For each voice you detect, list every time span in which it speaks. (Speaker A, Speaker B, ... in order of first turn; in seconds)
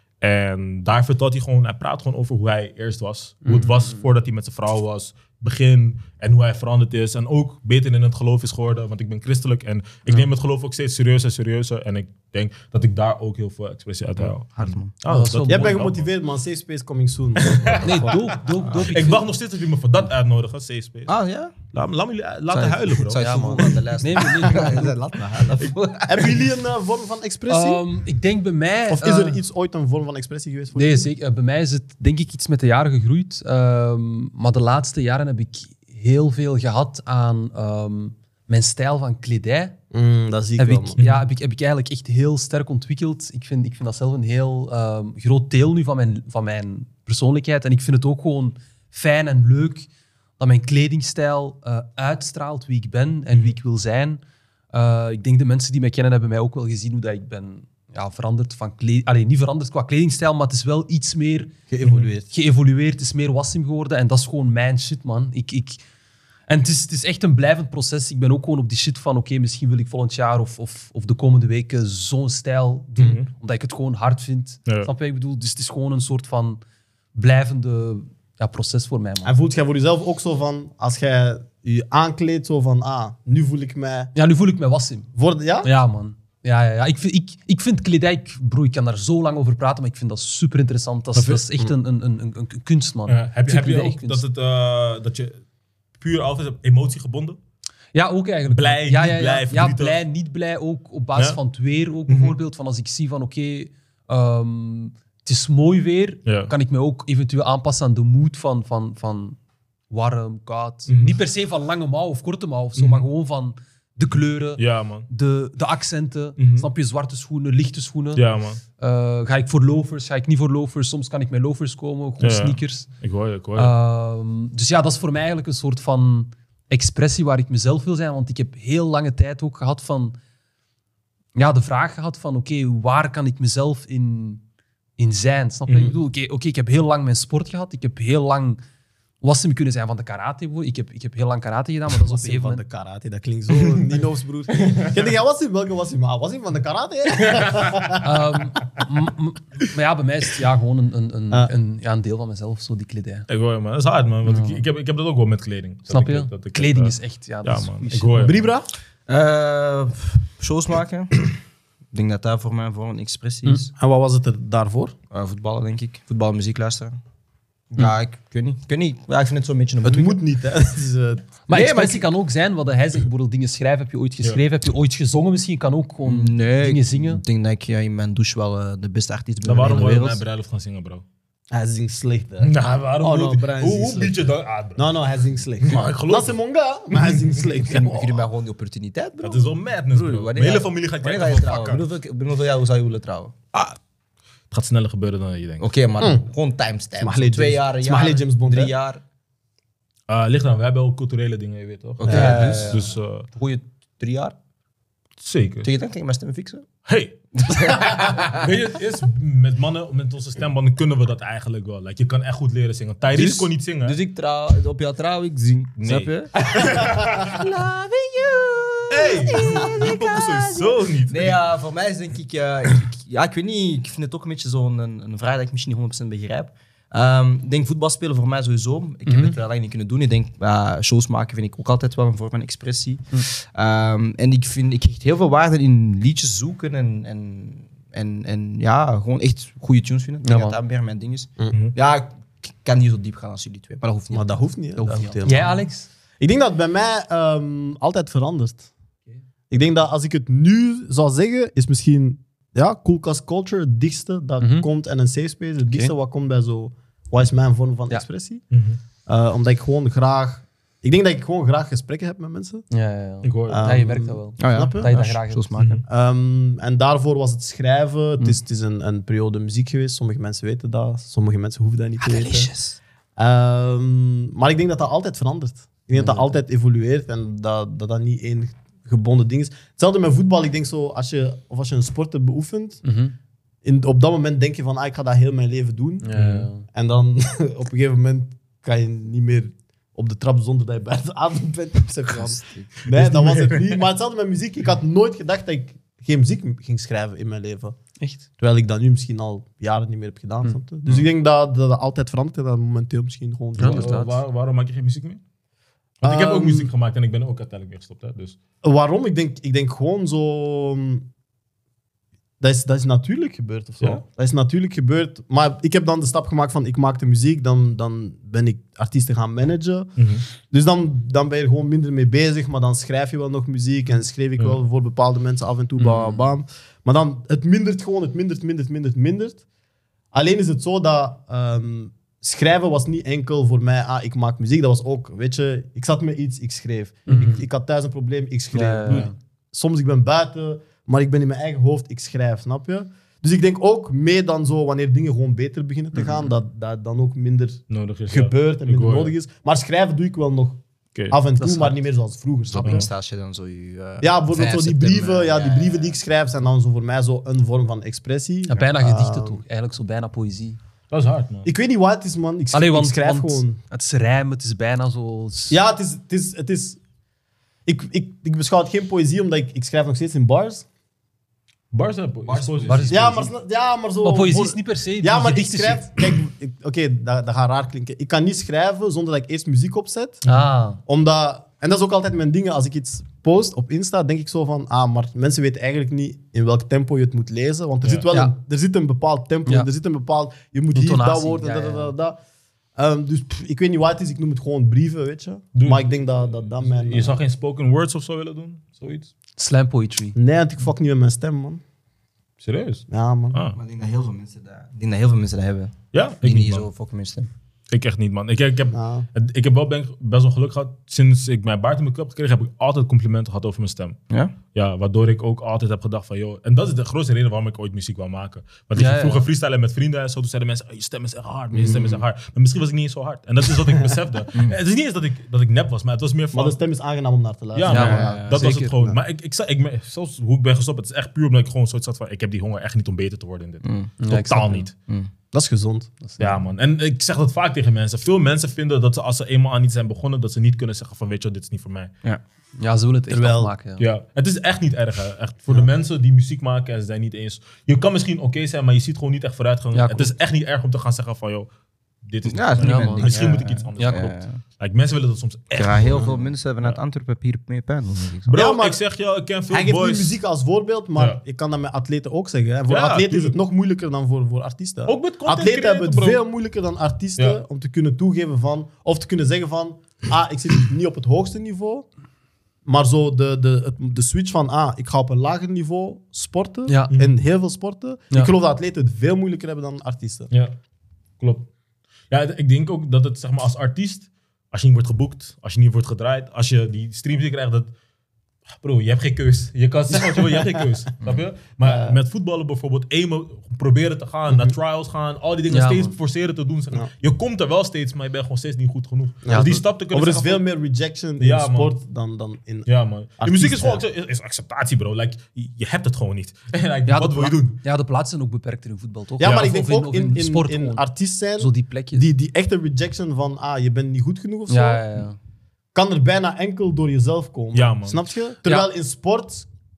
Speaker A: 0.2-16.1, 17.4-18.2, 18.9-21.1, 21.7-23.4, 41.0-41.2, 73.0-73.3, 74.7-74.9, 91.1-91.5, 93.1-95.4, 96.0-97.4, 98.5-100.0, 102.1-102.4, 106.2-106.5, 110.9-111.1, 112.8-113.0, 114.6-115.1, 116.4-116.7, 118.1-118.6, 122.2-123.7, 135.7-135.9, 144.6-145.0, 147.2-148.0, 153.3-158.5, 179.4-181.0, 182.4-184.9, 185.6-186.3, 189.2-191.8, 194.5-195.7, 200.1-203.2, 205.2-205.7, 206.8-214.0, 215.8-217.4, 218.9-221.4, 258.5-258.8, 263.2-263.8, 265.5-265.8, 286.2-286.4, 292.9-293.8, 303.6-305.2, 306.0-308.4, 320.0-320.2, 347.7-349.1, 360.9-361.5, 371.7-372.9, 395.5-395.9, 396.6-399.1, 402.4-403.6, 405.9-406.7, 407.7-414.0, 414.5-426.6, 427.5-434.7, 436.2-441.9, 443.8-451.5, 452.0-456.8, 458.3-460.1, 462.7-463.4, 464.9-466.2, 480.3-480.6, 481.2-481.5, 482.1-487.7, 488.5-500.4, 501.2-501.7, 502.6-507.6, 509.2-509.6, 517.5-518.0
Speaker B: 3.4-4.0, 15.1-15.8, 17.8-19.3, 23.1-25.0, 27.5-29.4, 30.7-39.7, 40.6-49.9, 50.4-54.2, 54.7-65.8, 66.5-76.6, 77.1-79.3, 84.1-85.1, 85.6-94.2, 97.9-109.4, 109.9-122.9, 123.5-130.2, 131.3-134.4, 135.0-138.6, 139.2-142.6, 148.0-153.3, 154.2-154.6, 155.9-158.3, 171.5-177.2, 229.1-229.4, 240.2-240.6, 245.2-245.9, 254.4-254.7, 262.7-265.5, 275.9-276.4, 282.8-283.1, 286.0-286.6, 303.6-304.1, 325.8-326.3, 337.1-337.4, 338.5-339.1, 351.4-351.9, 358.5-360.6, 362.5-365.6, 372.7-373.3, 374.0-375.8, 380.2-380.8, 390.7-391.9, 399.4-400.1, 418.7-419.3, 427.7-428.7, 434.0-434.7, 436.0-436.4, 442.6-443.9, 449.7-450.1, 452.6-454.1, 476.7-476.9, 495.5-495.9, 506.9-510.8, 511.4-512.1, 514.5-515.2
Speaker C: 14.2-14.9, 21.1-21.5, 22.5-26.4, 159.1-161.3, 161.9-163.7, 165.1-167.0, 167.7-170.2, 171.5-172.0, 176.0-180.2, 187.7-193.3, 195.6-199.0, 202.0-204.3, 205.6-206.7, 207.4-208.4, 213.1-245.2, 264.4-265.8, 272.0-272.8, 292.1-292.7, 352.5-355.9, 372.2-373.2, 403.5-407.3, 421.6-422.0, 427.7-428.5, 433.6-433.9, 452.3-454.4, 455.5-458.3
Speaker D: 15.5-18.2, 26.0-27.8, 28.9-31.1, 39.9-41.0, 61.7-62.2, 79.2-84.1, 85.1-85.7, 142.0-148.1, 158.2-158.7, 163.8-164.9, 169.8-171.3, 181.5-188.2, 196.0-196.2, 197.0-198.7, 202.0-202.8, 244.1-245.6, 246.2-248.7, 249.5-258.4, 259.1-262.6, 263.5-264.9, 265.9-272.5, 273.2-282.8, 283.6-297.8, 298.4-304.0, 306.0-306.7, 308.6-311.1, 312.4-319.9, 320.4-329.4, 330.1-352.9, 354.0-359.4, 361.4-363.6, 365.5-366.8, 367.6-370.6, 372.9-380.2, 380.9-392.2, 392.8-397.2, 400.1-401.6, 402.9-403.4, 408.7-409.1, 421.5-422.0, 423.5-424.0, 426.3-429.0, 435.3-435.9, 443.1-443.5, 455.9-456.2, 458.3-458.8, 459.5-471.9, 472.6-480.3, 489.9-490.7, 491.6-492.0, 494.3-494.5, 499.2-503.8, 509.2-514.8, 515.7-519.5